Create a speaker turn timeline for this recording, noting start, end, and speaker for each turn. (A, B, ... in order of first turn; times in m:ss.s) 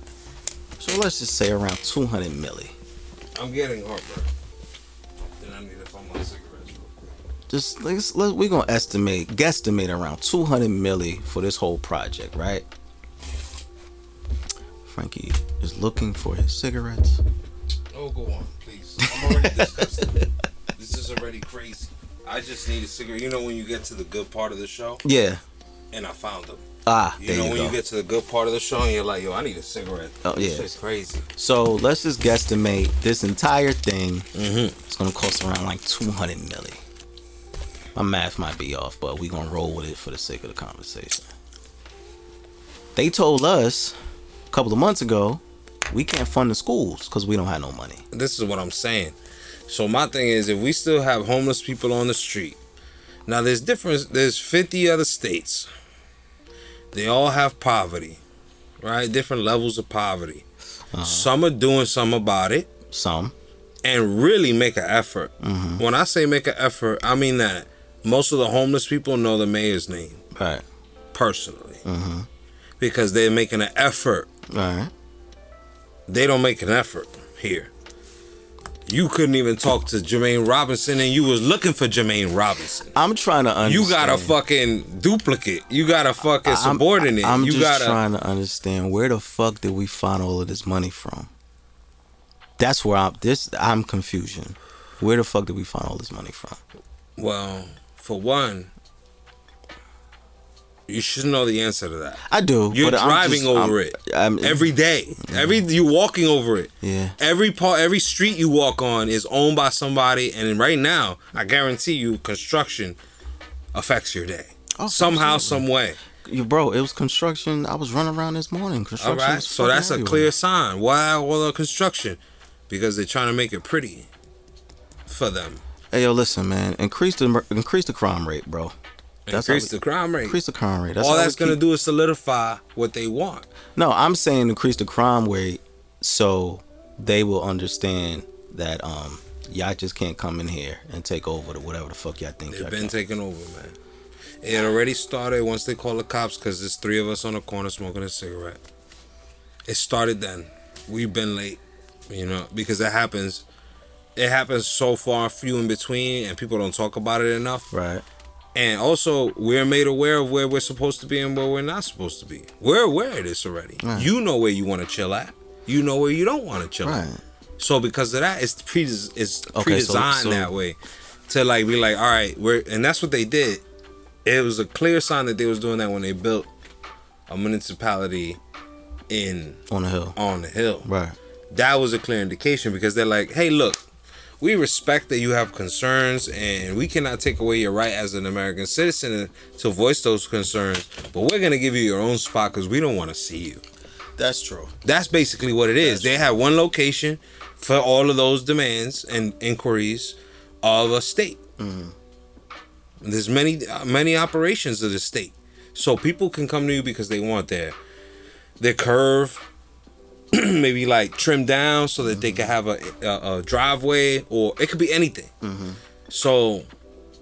0:00.8-0:02.7 A
0:03.4-0:04.3 B
0:05.4-0:07.1 B
0:07.5-0:12.6 A
0:14.8-0:17.2 A
0:17.9-0:25.0 B
0:19.0-0:20.1 A
0:25.0-0:25.4 A
0:25.9-0:26.6 B
0:26.8-0:27.8 A
0:27.2-0:31.2 B
0:30.2-0:30.7 A
0:31.4-0:34.3 A
0:34.3-0:34.8 B
0:34.8-0:36.8 A
0:37.9-0:41.3 A
0:42.9-0:43.9 A
0:44.5-0:48.0 A
0:48.1-0:49.2 B
0:49.7-0:52.6 B
0:53.3-0:55.7 B
0:56.9-0:58.2 B
0:58.8-1:00.4 B
1:00.9-1:01.3 A
1:01.0-1:02.7 B
1:02.9-1:03.3 A
1:03.8-1:10.2 B
1:05.4-1:05.8 A
1:10.3-1:10.6 A
1:11.1-1:11.8 B
1:11.8-1:12.3 A
1:12.8-1:14.3 B
1:14.5-1:14.9 A
1:16.1-1:17.7 B
1:18.9-1:22.9 B
1:22.9-1:24.4 A
1:23.6-1:28.0 B
1:26.4-1:31.3 A
1:32.6-1:36.6 A
1:37.2-1:38.7 B
1:40.9-1:53.0 B
1:42.2-1:45.6 A
1:46.8-1:47.2 A
1:53.7-1:56.0 B
1:54.8-1:55.6 A
1:56.2-2:00.3 A
1:59.0-2:04.1 B
2:05.1-2:05.6 B
2:05.9-2:08.7 A
2:09.3-2:10.4 B
2:09.3-2:11.6 A
2:11.0-2:13.4 B
2:13.8-2:22.9 A
2:22.5-2:23.8 B
2:24.4-2:28.6 B
2:29.7-2:33.4 B
2:34.2-2:37.7 B
2:37.7-2:38.0 A
2:38.5-2:47.0 B
2:43.8-2:44.1 A
2:46.8-2:47.2 A
2:47.6-2:50.8 B
2:49.5-2:50.5 A
2:51.3-2:53.6 B
2:54.2-2:56.5 B
2:57.3-2:58.4 B
2:59.1-2:59.6 B
2:59.7-3:00.2 A
3:00.2-3:00.9 B
3:00.8-3:01.2 A
3:01.5-3:03.8 B
3:04.4-3:13.6 B
3:14.2-3:14.7 A
3:14.8-3:21.4 B
3:15.8-3:16.3 A
3:21.6-3:21.9 A
3:23.0-3:27.8 B
3:28.6-3:29.4 B
3:30.3-3:35.3 B
3:32.0-3:32.5 A
3:35.4-3:35.8 A
3:36.1-3:36.7 B